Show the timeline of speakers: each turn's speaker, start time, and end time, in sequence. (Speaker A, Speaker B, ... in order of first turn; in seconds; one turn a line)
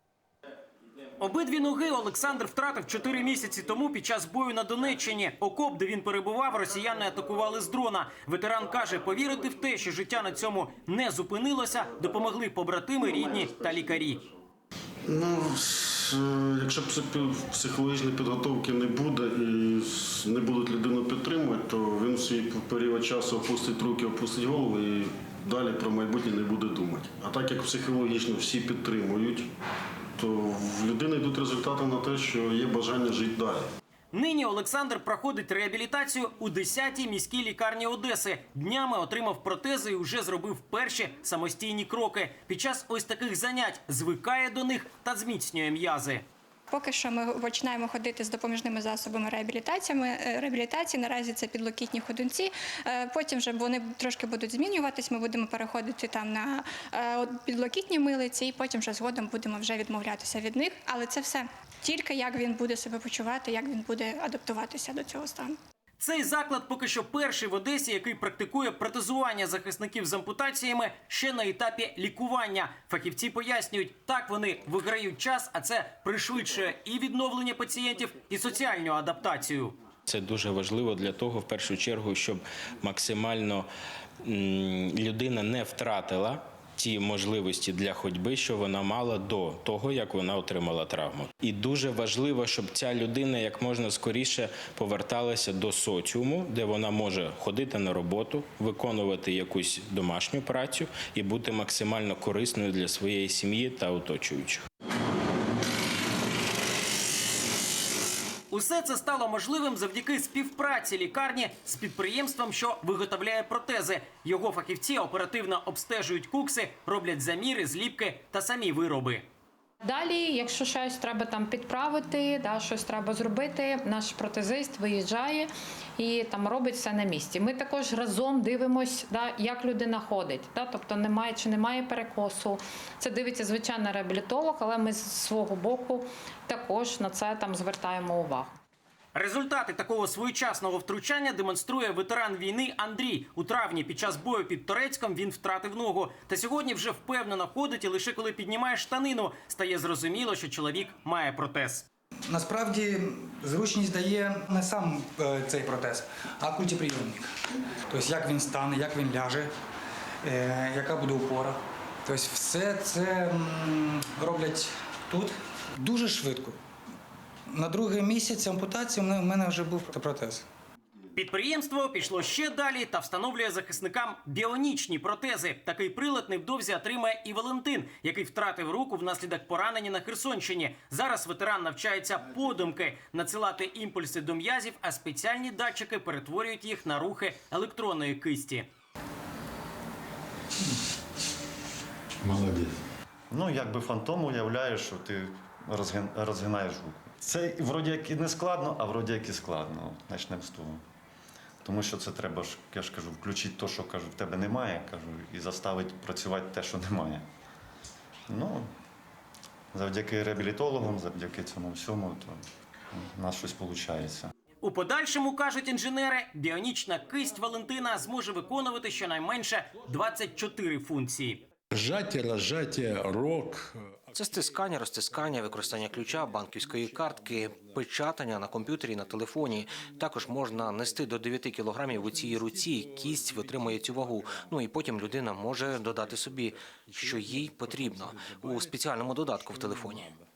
Speaker A: 1.2-14.2
Speaker B: 15.1-29.5
Speaker B: 30.2-33.6
Speaker A: 34.1-46.2
Speaker C: 46.7-65.6
Speaker A: 66.0-79.7
Speaker D: 80.1-83.7
Speaker D: 84.2-104.6
Speaker A: 108.5-119.2
Speaker E: 119.8-138.5
Speaker A: 139.1-151.8
Speaker F: 152.3-157.2
Speaker F: 157.9-159.5
Speaker F: 160.2-166.6
Speaker F: 167.5-170.4
Speaker A: 171.2-188.7
Speaker G: 192.2-192.8
Speaker H: 193.3-200.8
Speaker H: 201.6-207.2
Speaker H: 208.3-208.7
Speaker H: 209.7-214.3
Speaker A: 214.6-221.4
Speaker G: 221.7-223.9
Speaker I: 224.1-240.1